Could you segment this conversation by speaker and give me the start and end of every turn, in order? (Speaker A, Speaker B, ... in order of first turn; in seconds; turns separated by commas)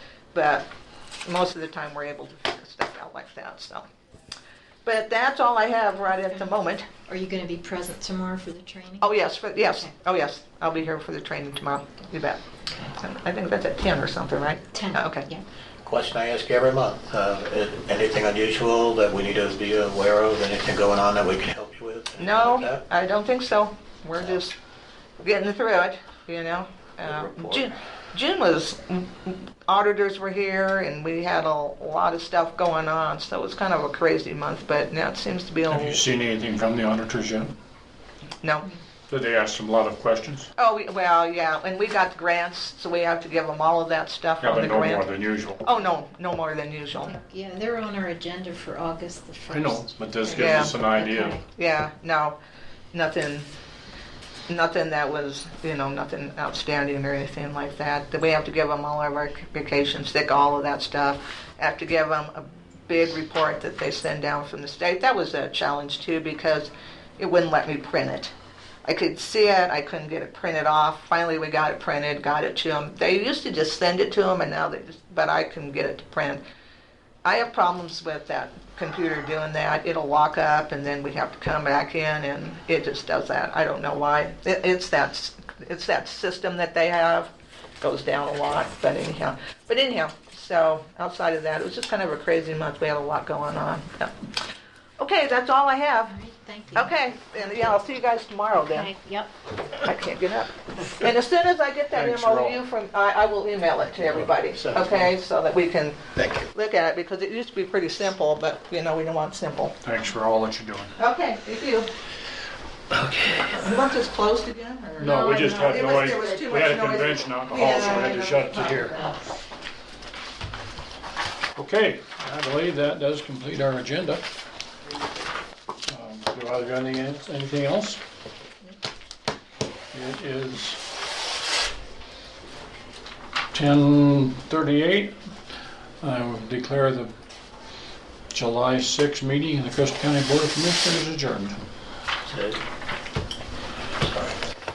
Speaker A: 0.3-0.7, Speaker A: 1.2-3.9, Speaker A: 4.8-6.9, Speaker B: 7.0-9.2, Speaker A: 9.0-15.3, Speaker B: 14.7-15.4, Speaker C: 15.8-22.8, Speaker A: 22.2-24.5, Speaker A: 25.2-36.0, Speaker C: 27.0-27.7, Speaker D: 35.7-37.5, Speaker A: 38.4-38.7, Speaker D: 39.1-40.5, Speaker A: 40.5-45.1, Speaker D: 44.4-45.6, Speaker A: 45.6-47.2, Speaker B: 47.0-49.9, Speaker D: 49.5-51.4, Speaker A: 50.3-50.8, Speaker B: 50.6-51.4, Speaker A: 51.5-52.4, Speaker A: 52.9-53.5, Speaker A: 54.5-68.3, Speaker A: 68.8-76.4, Speaker A: 77.2-94.1, Speaker A: 95.0-96.2, Speaker B: 96.1-97.6, Speaker A: 96.7-98.9, Speaker B: 98.6-99.3, Speaker A: 99.8-109.8, Speaker D: 101.9-102.5, Speaker C: 104.0-105.1, Speaker C: 106.2-106.5, Speaker D: 109.8-110.9, Speaker A: 111.0-111.9, Speaker C: 112.9-113.6, Speaker A: 113.3-119.1, Speaker D: 115.0-118.9, Speaker B: 115.0-115.4, Speaker D: 121.5-124.2, Speaker D: 125.8-128.0, Speaker D: 129.9-130.8, Speaker D: 133.5-135.2, Speaker D: 136.0-137.1, Speaker D: 138.3-141.7, Speaker C: 142.2-142.6, Speaker C: 144.0-144.3